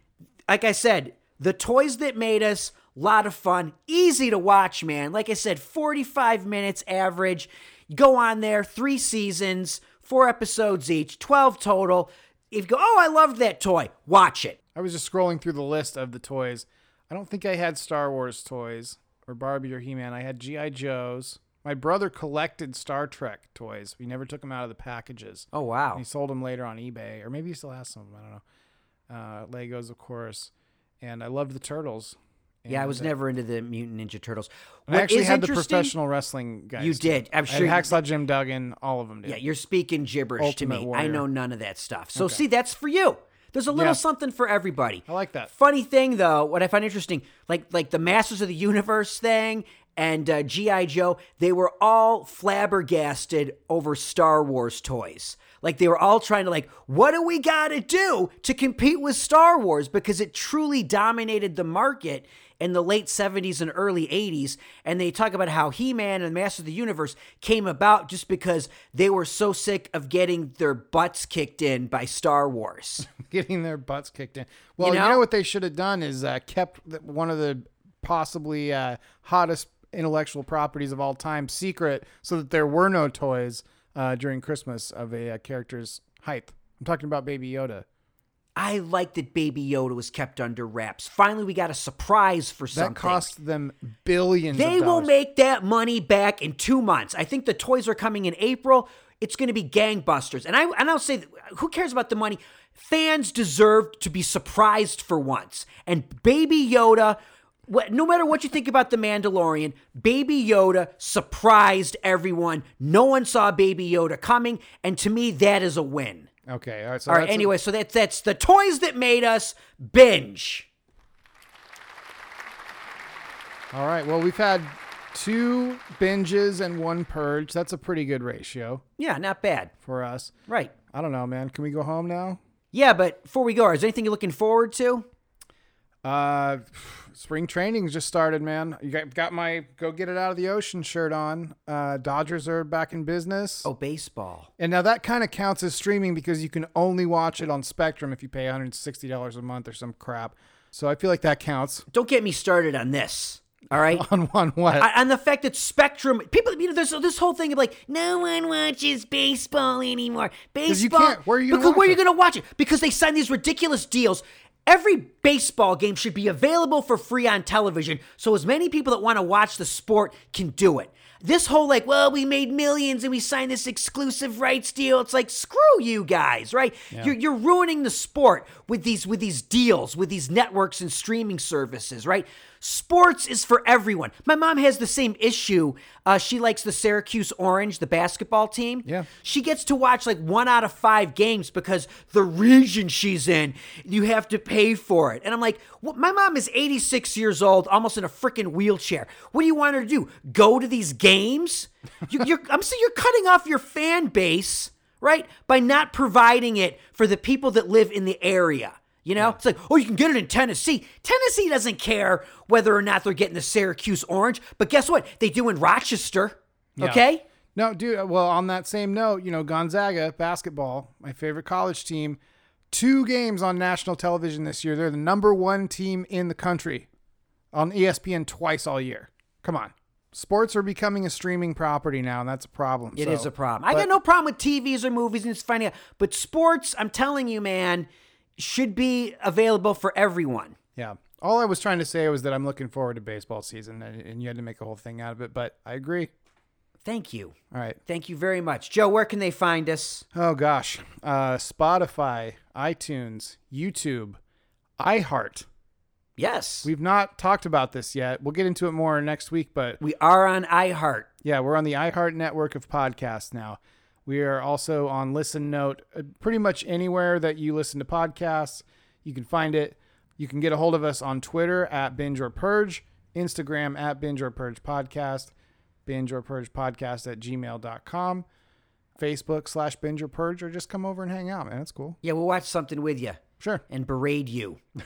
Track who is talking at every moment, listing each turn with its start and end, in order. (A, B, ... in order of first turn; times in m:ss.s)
0:00.5-0:14.6 A
0:14.7-0:28.4 B
0:25.5-0:26.0 A
0:29.1-0:33.1 B
0:32.7-0:35.9 A
0:34.9-0:39.4 B
0:36.8-0:38.0 A
0:39.2-1:13.1 A
0:40.4-0:41.2 B
0:42.1-0:42.4 B
0:43.7-0:44.0 B
0:45.1-0:45.5 B
1:13.0-1:27.8 B
1:14.8-1:15.2 A
1:28.6-1:33.3 A
1:32.7-1:35.1 B
1:34.5-1:56.3 A
1:56.5-1:57.5 B
1:57.1-2:00.7 A
2:03.7-2:08.8 B
2:09.0-2:09.7 A
2:09.8-2:10.3 B
2:10.5-2:10.7 A
2:10.9-2:12.4 B
2:12.7-2:15.1 A
2:16.0-2:23.7 B
2:23.6-2:24.5 A
2:24.6-2:31.8 B
2:31.9-2:34.0 A
2:33.7-2:34.9 B
2:34.8-3:37.2 A
2:40.7-2:42.0 B
3:36.8-3:37.0 B
3:37.5-3:42.2 B
3:42.7-3:46.9 B
3:47.5-3:53.9 B
3:53.0-4:00.6 A
4:00.8-4:06.1 B
4:06.8-4:10.0 A
4:07.5-4:07.8 B
4:10.1-4:14.2 B
4:14.8-4:15.5 B
4:16.2-4:16.7 A
4:16.6-4:19.8 B
4:19.8-4:21.1 A
4:21.2-4:35.3 B
4:35.9-4:38.2 B
4:39.0-4:42.0 B
4:42.0-4:44.6 A